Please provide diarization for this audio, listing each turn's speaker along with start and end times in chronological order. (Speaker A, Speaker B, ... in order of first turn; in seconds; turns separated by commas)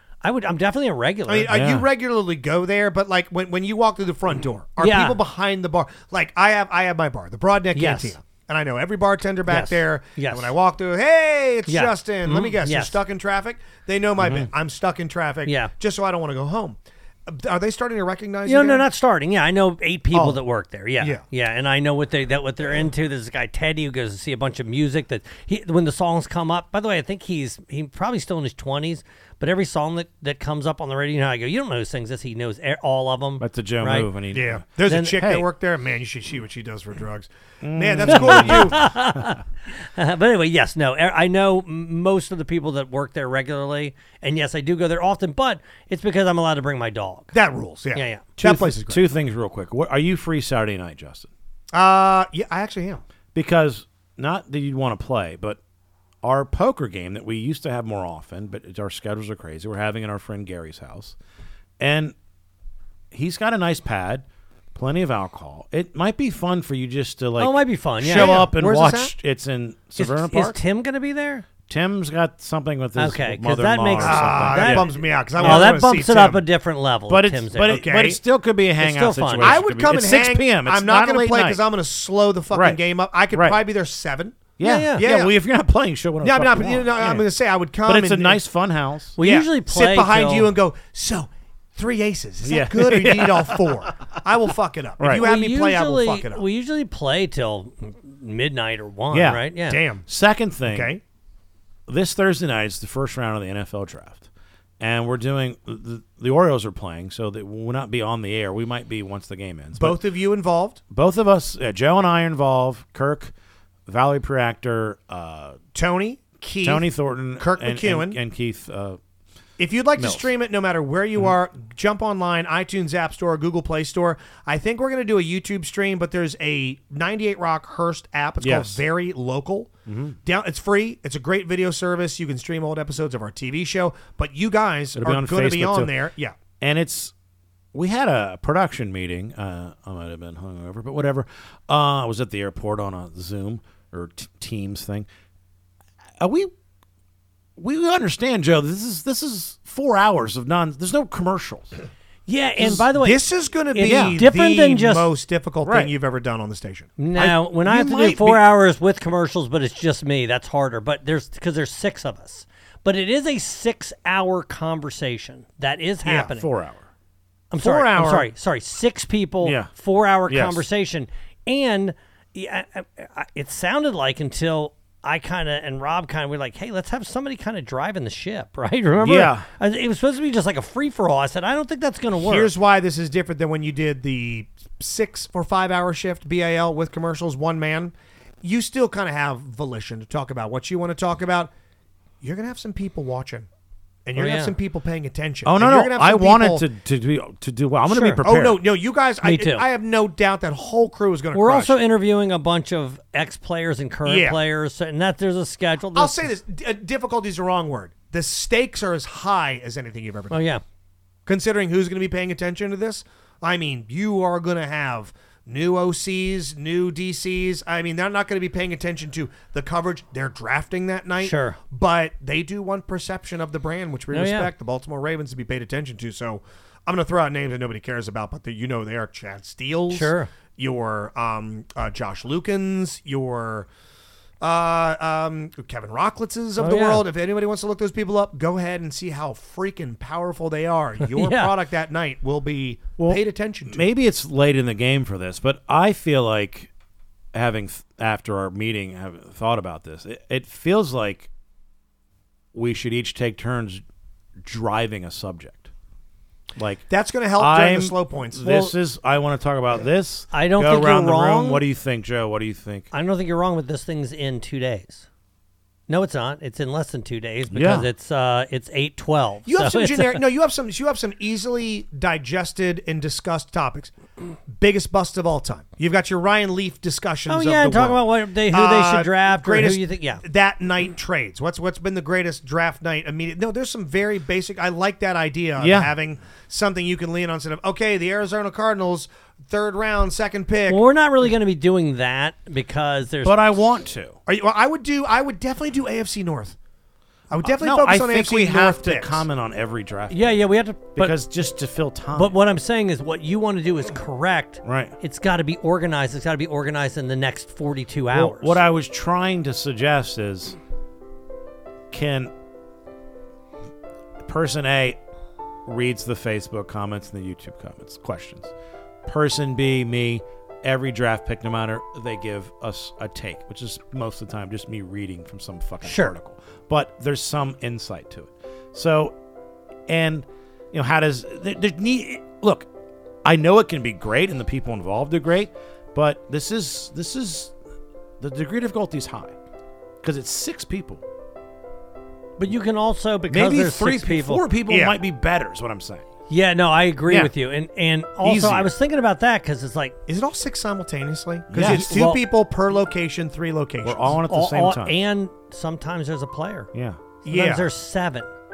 Speaker A: 0.2-1.5, Speaker B: 1.3-18.9, Speaker C: 1.5-1.9, Speaker A: 4.8-5.2, Speaker A: 7.7-8.2, Speaker A: 9.5-10.5, Speaker A: 11.7-13.0, Speaker C: 14.2-14.5, Speaker A: 15.4-15.7, Speaker A: 18.4-34.1, Speaker B: 20.1-20.4, Speaker C: 33.4-34.6, Speaker B: 34.3-38.9, Speaker A: 34.9-35.2, Speaker C: 35.2-35.4, Speaker C: 37.6-39.4, Speaker A: 38.0-47.3, Speaker B: 47.3-49.1, Speaker A: 47.9-48.2, Speaker C: 48.4-51.3, Speaker B: 51.7-53.0, Speaker C: 53.3-55.6, Speaker C: 56.2-61.1, Speaker C: 61.8-62.1, Speaker C: 63.1-70.6, Speaker A: 67.4-68.5, Speaker B: 68.0-69.1, Speaker A: 70.0-71.4, Speaker C: 71.7-75.8, Speaker A: 73.0-77.8, Speaker B: 74.0-76.4, Speaker C: 77.1-81.6, Speaker B: 77.6-78.2, Speaker A: 78.8-79.6, Speaker B: 79.4-85.3, Speaker C: 82.5-82.8, Speaker C: 83.3-83.6, Speaker C: 84.6-87.1, Speaker A: 84.6-85.0, Speaker B: 86.2-88.4, Speaker C: 87.8-89.2, Speaker A: 89.2-90.5, Speaker B: 89.2-96.4, Speaker C: 92.4-93.9, Speaker C: 95.0-95.2, Speaker A: 95.2-99.8, Speaker C: 99.1-99.4, Speaker B: 99.7-100.1, Speaker C: 100.1-100.9, Speaker B: 100.7-101.0, Speaker C: 101.9-104.3, Speaker C: 104.8-110.0, Speaker B: 109.8-110.8, Speaker C: 110.9-113.3, Speaker C: 113.9-115.6, Speaker B: 115.7-116.9, Speaker C: 116.6-119.0, Speaker B: 117.4-118.2, Speaker B: 119.6-129.7, Speaker C: 120.0-120.3, Speaker C: 128.4-128.8, Speaker C: 129.9-130.2, Speaker B: 130.2-136.3, Speaker C: 134.9-135.9, Speaker C: 136.6-137.1, Speaker C: 137.7-145.1, Speaker C: 146.2-146.5, Speaker C: 147.6-151.7, Speaker A: 152.3-155.1, Speaker B: 152.6-157.3, Speaker C: 153.8-154.2, Speaker C: 155.6-155.9, Speaker A: 157.0-166.5, Speaker C: 157.2-158.4, Speaker B: 166.0-166.3, Speaker C: 166.3-166.8, Speaker A: 167.5-182.5, Speaker B: 167.6-168.3, Speaker C: 169.4-169.7, Speaker C: 170.3-170.6, Speaker C: 179.0-179.4, Speaker B: 182.2-191.5, Speaker B: 192.2-193.5, Speaker B: 194.1-196.7, Speaker A: 194.2-194.5, Speaker C: 195.4-198.6, Speaker B: 197.9-201.8, Speaker A: 199.2-199.6, Speaker A: 201.3-206.2, Speaker B: 204.1-204.4, Speaker B: 205.9-210.4, Speaker A: 210.3-210.6, Speaker B: 211.2-233.7, Speaker A: 221.2-221.6, Speaker A: 224.1-224.5, Speaker A: 229.9-230.3, Speaker B: 234.4-243.9, Speaker A: 236.6-237.0, Speaker A: 241.0-241.5, Speaker C: 243.0-246.7, Speaker C: 247.3-251.3, Speaker C: 252.5-253.8, Speaker C: 254.4-255.7, Speaker C: 256.6-256.9, Speaker B: 256.9-258.7, Speaker C: 257.4-262.9, Speaker A: 260.3-261.6, Speaker A: 262.9-265.1, Speaker A: 265.9-270.2, Speaker C: 267.5-267.9, Speaker B: 269.4-273.9, Speaker B: 274.5-290.8, Speaker A: 277.3-280.2, Speaker C: 285.6-285.9, Speaker A: 290.7-293.5, Speaker C: 293.2-294.2, Speaker B: 294.3-296.6, Speaker B: 297.3-299.2, Speaker C: 297.4-300.3, Speaker A: 300.1-301.1, Speaker C: 300.9-302.3, Speaker A: 302.1-308.6, Speaker C: 304.6-304.9, Speaker C: 308.1-310.6, Speaker C: 311.9-312.3, Speaker C: 314.2-315.0, Speaker C: 315.6-318.5, Speaker C: 319.1-329.1, Speaker A: 325.8-326.1, Speaker C: 329.9-332.7, Speaker C: 333.2-337.5, Speaker C: 338.2-339.3, Speaker C: 340.0-341.0, Speaker A: 342.4-344.4, Speaker C: 343.3-346.1, Speaker B: 344.7-345.0, Speaker A: 346.3-349.9, Speaker C: 348.2-348.7, Speaker B: 350.1-354.2, Speaker C: 351.5-352.0, Speaker A: 351.6-352.2, Speaker C: 353.8-354.9, Speaker A: 354.3-356.7, Speaker C: 356.7-357.0, Speaker A: 357.2-358.3, Speaker B: 357.2-357.7